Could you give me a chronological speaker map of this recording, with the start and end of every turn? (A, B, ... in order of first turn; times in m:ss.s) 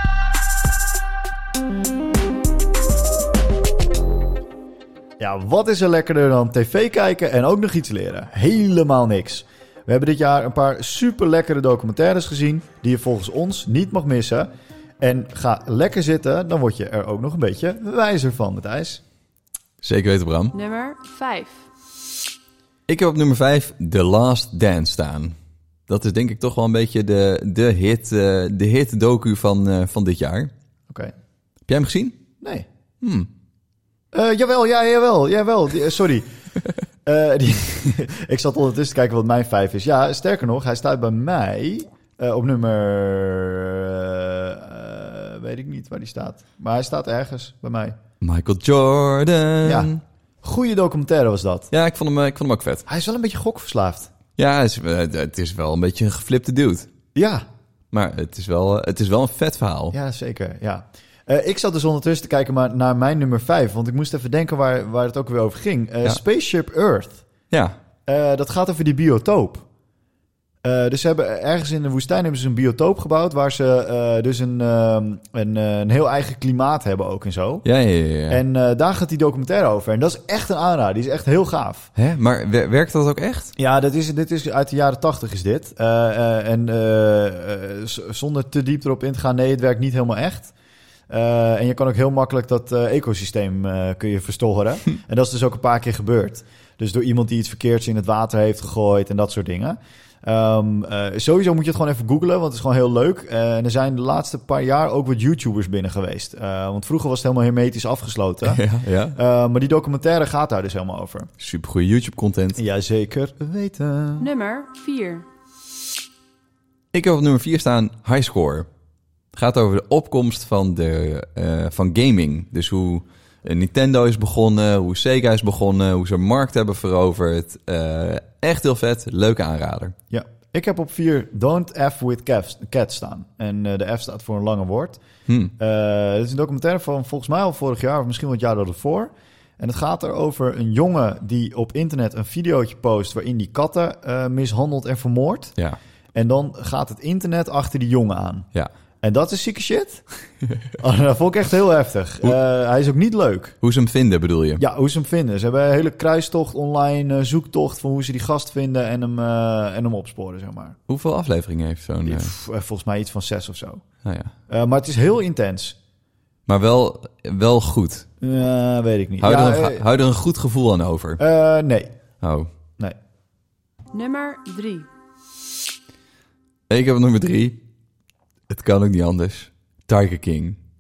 0:05.2-0:14.5 A
0:15.0-0:19.0 A
0:19.8-0:20.5 B
0:20.5-0:21.7 C
0:22.9-0:25.4 B
0:25.9-0:30.5 B
0:31.7-0:32.2 B
0:32.4-0:32.7 A
0:33.0-0:33.3 B
0:34.1-0:36.3 A
0:37.1-0:48.0 A
0:48.2-0:50.0 B
0:49.6-0:49.9 A
0:50.4-0:51.7 A
0:51.7-0:52.8 B
0:52.9-0:54.1 A
0:54.4-0:56.9 B
0:57.2-0:57.4 A
0:57.9-1:00.0 B
0:59.9-1:07.2 A
1:07.5-1:07.8 B
1:08.1-1:09.7 A
1:10.6-1:17.6 A
1:17.6-1:18.4 B
1:18.3-1:21.9 A
1:22.0-1:23.5 B
1:23.6-1:30.5 A
1:31.1-1:48.6 A
1:48.4-1:49.2 B
1:49.2-1:51.3 A
1:51.4-1:52.6 B
1:52.6-1:54.3 A
1:54.2-1:55.3 C
1:56.9-1:58.7 B
1:59.3-2:10.0 B
2:10.1-2:15.0 A
2:15.3-2:15.5 B
2:15.6-2:25.6 A
2:26.1-2:28.5 A
2:29.0-2:30.0 A
2:30.8-2:33.6 A
2:33.6-2:34.6 B
2:34.6-2:40.8 A
2:40.9-2:42.3 B
2:42.1-2:43.8 A
2:44.0-2:44.3 B
2:44.5-2:45.8 A
2:46.5-2:48.1 B
2:48.2-2:49.8 A
2:49.2-2:51.2 B
2:51.2-2:51.9 A
2:52.2-2:52.5 B
2:53.9-2:54.9 C
2:56.7-2:57.6 B
2:58.5-3:00.6 B